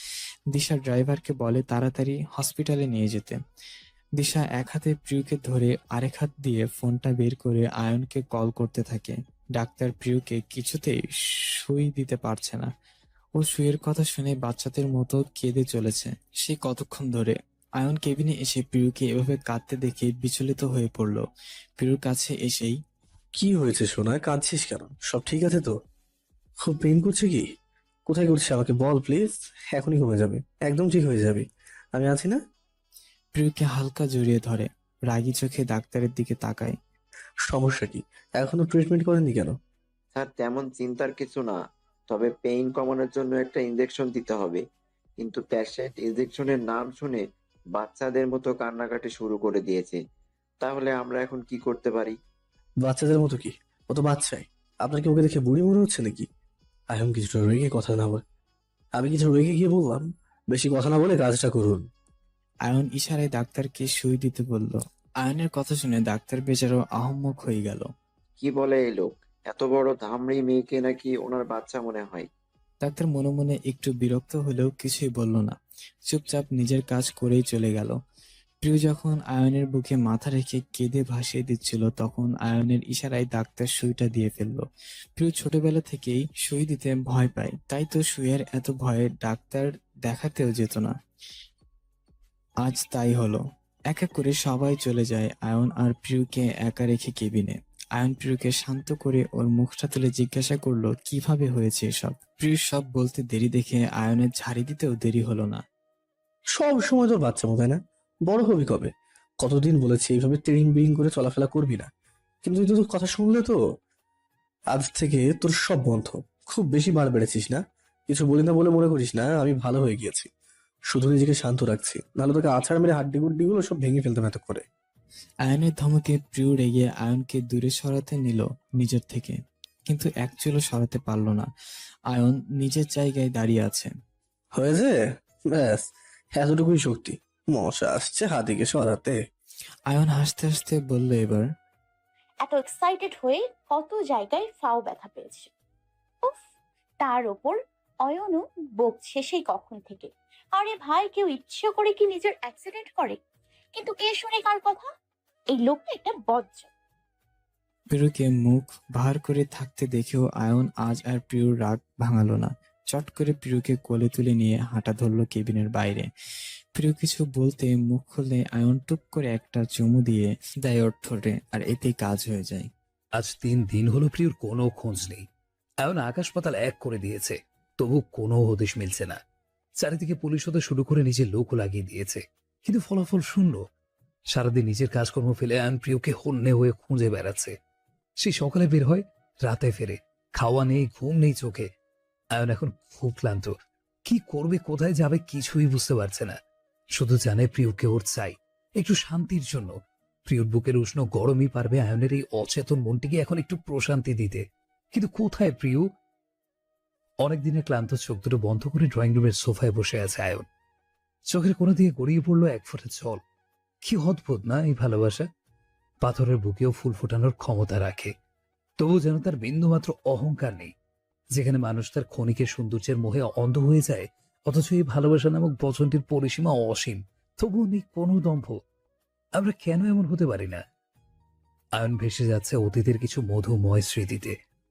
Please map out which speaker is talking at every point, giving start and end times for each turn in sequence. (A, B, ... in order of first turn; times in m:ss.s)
0:00.5-0:03.4 A
0:04.2-0:12.7 A
0:13.4-0:21.2 A
0:21.8-0:22.8 A
0:23.4-0:25.7 B
0:26.6-0:27.4 B
0:28.1-0:32.4 B
0:33.4-0:36.8 A
0:37.5-0:39.5 B
0:40.1-0:44.6 C
0:45.2-0:50.0 C
0:50.6-0:52.2 C
0:52.8-0:56.3 B
0:56.9-0:58.2 B
0:59.0-1:01.9 B
1:02.7-1:07.9 A
1:08.4-1:12.3 C
1:12.8-1:15.6 A
1:16.1-1:18.0 A
1:18.6-1:24.7 A
1:25.2-1:30.9 A
1:32.6-1:45.6 A
1:46.6-1:48.9 B
1:49.4-1:51.9 B
1:52.4-1:53.6 B
1:54.7-2:00.3 B
2:00.9-2:04.6 B
2:05.5-2:11.5 A
2:12.1-2:13.9 A
2:14.6-2:15.0 B
2:15.5-2:15.8 B
2:16.4-2:19.2 B
2:19.9-2:21.5 A
2:22.4-2:25.5 D
2:27.0-2:33.2 D
2:33.7-2:34.9 D
2:35.5-2:36.7 D
2:37.9-2:46.1 A
2:46.8-2:52.7 A
2:53.2-2:55.2 E
2:55.8-2:59.2 E
2:59.8-3:03.6 E
3:04.3-3:07.6 E
3:08.2-3:11.7 E
3:12.3-3:13.5 E
3:14.1-3:16.4 E
3:17.0-3:19.8 E
3:20.2-3:25.9 E
3:27.2-3:30.5 E
3:31.3-3:33.2 E
3:33.8-3:35.3 E
3:36.0-3:38.1 E
3:38.8-3:40.7 E
3:41.4-3:48.6 E
3:49.4-3:50.6 E
3:51.8-3:54.4 E